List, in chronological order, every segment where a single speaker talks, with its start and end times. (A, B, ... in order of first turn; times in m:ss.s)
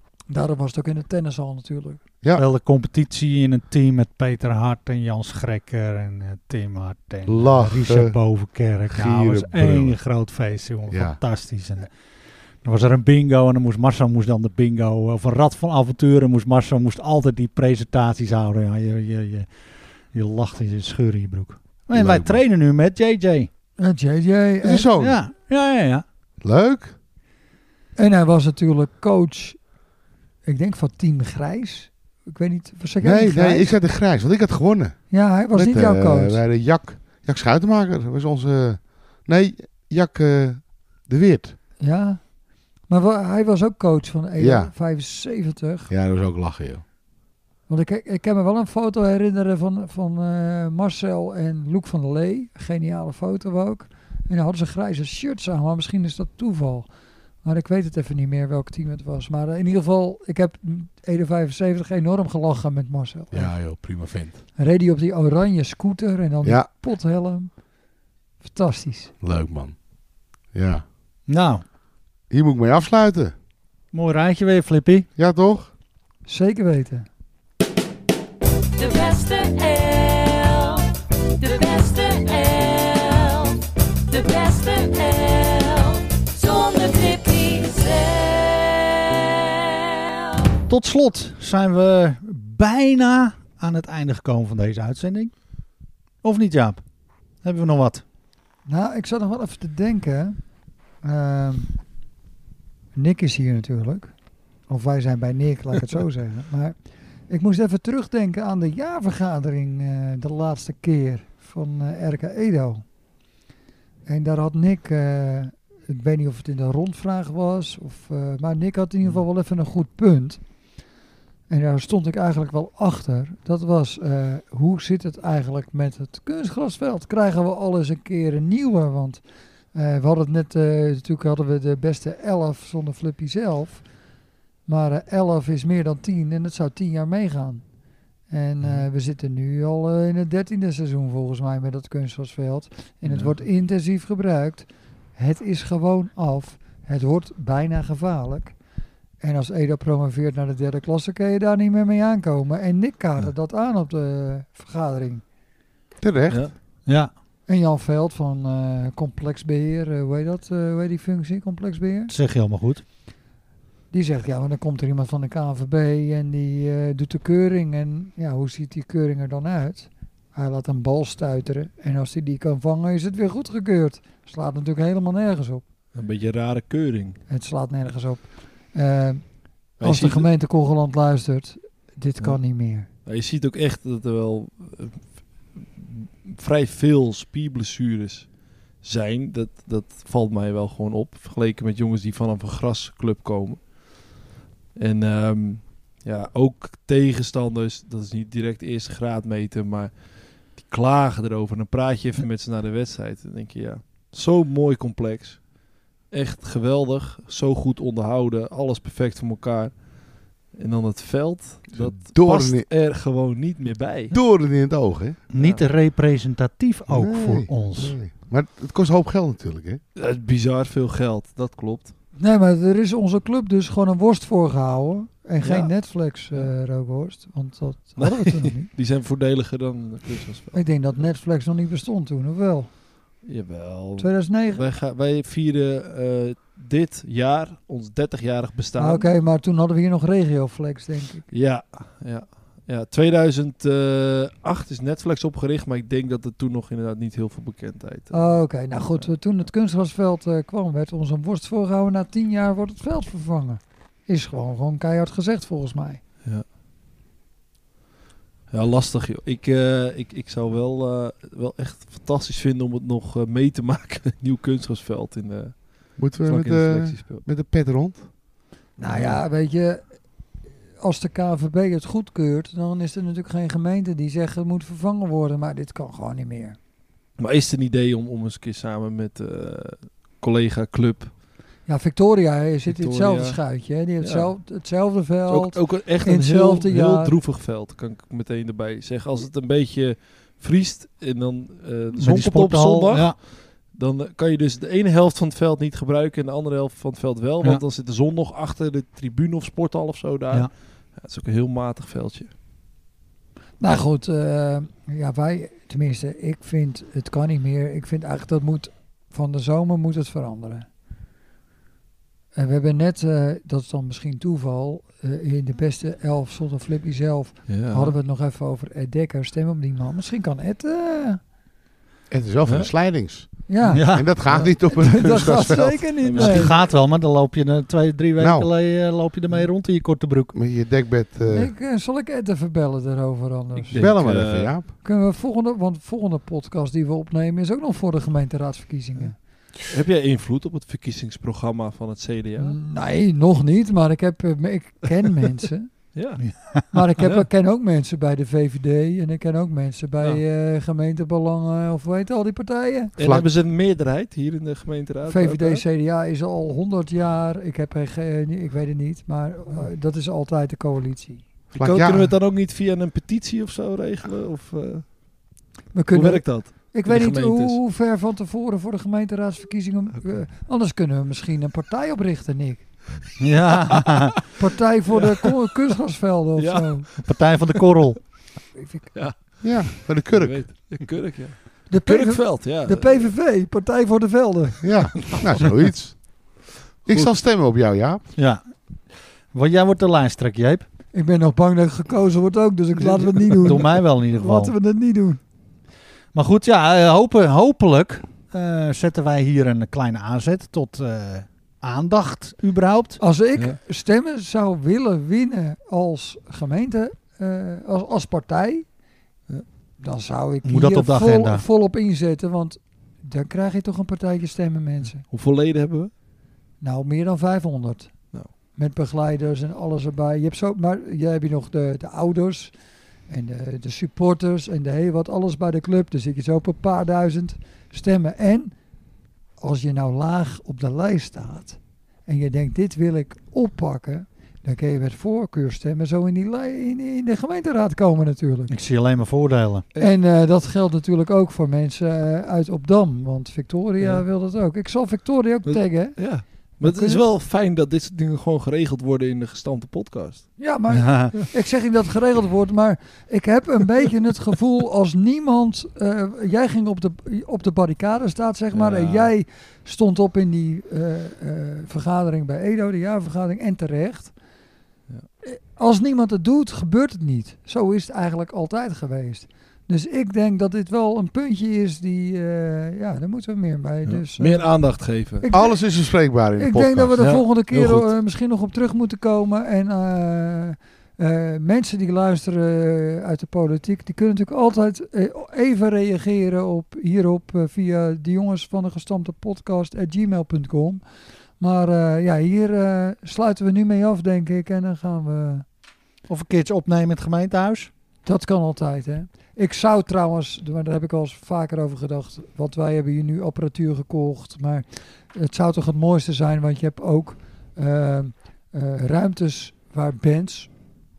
0:00.3-0:02.0 A
0:02.4-0:12.0 B
0:07.3-0:08.2 C
0:08.9-0:10.0 C
0:10.9-0:11.2 C
0:12.6-0:23.5 B
0:21.9-0:22.4 C
0:23.8-0:24.9 A
0:24.6-0:25.2 C
0:25.0-0:26.0 B
0:26.4-0:27.0 C
0:28.0-0:29.6 A
0:30.4-0:33.7 A
0:33.0-0:41.6 C
0:35.1-0:36.4 A
0:41.8-0:42.3 A
0:42.8-0:45.9 A
0:44.4-0:44.7 C
0:45.9-0:46.8 C
0:47.7-0:56.9 A
0:57.4-1:03.6 A
1:03.3-1:04.4 C
1:04.6-1:07.6 A
1:08.4-1:09.1 A
1:09.2-1:09.8 C
1:10.5-1:10.8 C
1:11.3-1:11.6 B
1:12.3-1:13.3 C
1:13.9-1:15.1 B
1:15.2-1:15.7 C
1:16.2-1:17.1 A
1:18.8-1:20.8 D
1:21.4-1:29.3 D
1:30.7-1:35.3 B
1:36.2-1:36.8 B
1:37.4-1:38.0 B
1:38.7-1:40.4 A
1:41.0-1:41.8 A
1:42.9-1:44.1 A
1:44.7-1:46.8 A
1:47.3-1:52.8 A
1:54.1-2:00.4 A
2:01.5-2:09.2 A
2:09.7-2:13.9 A
2:14.7-2:17.6 A
2:18.3-2:28.6 A
2:18.6-2:18.9 E
2:23.1-2:23.4 E
2:29.2-2:35.2 A
2:36.0-2:36.5 C
2:36.3-2:36.5 E
2:36.9-2:37.1 B
2:37.5-2:42.1 A
2:42.1-2:42.8 B
2:43.9-2:55.6 A
2:55.9-2:57.2 E
2:57.3-3:02.9 A
2:59.8-3:00.3 E
3:03.0-3:14.2 E
3:14.8-3:34.2 E
3:31.7-3:32.7 C
3:34.1-3:35.2 C
3:35.3-3:38.0 B
3:35.4-3:35.7 E
3:36.9-3:39.8 C
3:40.0-3:42.0 E
3:42.2-3:48.7 A
3:45.4-3:46.5 E
3:48.0-3:51.1 E
3:50.5-3:52.7 A
3:53.2-3:59.1 E
3:54.0-3:54.6 A
3:58.8-4:01.3 A
4:01.3-4:09.1 E
4:08.1-4:16.0 A
4:18.5-4:27.2 E
4:26.0-4:28.1 C
4:28.8-4:30.0 A
4:28.9-4:29.2 C
4:30.8-4:36.6 A
4:37.2-4:41.1 E
4:41.7-4:47.2 A
4:42.7-4:44.4 E
4:45.3-5:02.3 E
4:52.0-4:53.2 B
5:03.6-5:10.7 A
5:12.4-5:21.2 A
5:17.5-5:18.0 E
5:22.1-5:26.0 C
5:22.5-5:22.7 E
5:23.5-5:26.6 A
5:23.7-5:24.4 B
5:26.0-5:26.6 E
5:26.1-5:30.3 B
5:28.2-5:28.5 C
5:30.3-5:31.5 C
5:31.3-5:34.1 A
5:33.6-5:34.6 E
5:33.8-5:34.7 C
5:34.8-5:39.2 A
5:39.6-5:42.6 E
5:42.4-5:45.7 A
5:45.9-5:47.2 E
5:46.7-5:52.9 A
5:53.0-5:53.3 C
5:53.0-5:55.6 E
5:55.1-6:01.2 A
6:01.5-6:02.2 C
6:01.5-6:05.0 E
6:05.7-6:12.7 A
6:05.9-6:07.6 E
6:13.2-6:14.2 B
6:13.8-6:14.1 E
6:14.4-6:16.9 A
6:15.0-6:15.3 E
6:16.4-6:17.6 E
6:17.0-6:18.0 B
6:18.6-6:19.0 A
6:18.9-6:23.1 E
6:19.4-6:20.5 C
6:21.7-6:24.6 A
6:24.6-6:28.1 C
6:26.9-6:27.1 E
6:28.2-6:30.6 B
6:30.9-6:35.2 A
6:33.4-6:34.5 B
6:36.1-6:43.0 B
6:43.0-6:48.7 A
6:49.8-6:55.0 A
6:50.4-6:51.4 B
6:55.0-6:55.9 E
6:56.6-7:02.5 A
7:03.1-7:08.6 A
7:09.4-7:18.5 A
7:18.5-7:19.6 B
7:19.8-7:27.0 A
7:25.5-7:30.4 E
7:30.4-7:44.1 A
7:30.7-7:31.1 B
7:38.5-7:39.1 E
7:45.2-7:54.5 A
7:53.9-7:55.3 E
7:55.2-7:55.6 A
7:55.3-7:57.0 C
7:56.4-8:10.8 A
7:57.0-7:57.9 E
8:11.4-8:15.4 A
8:16.1-8:17.7 B
8:18.0-8:30.5 A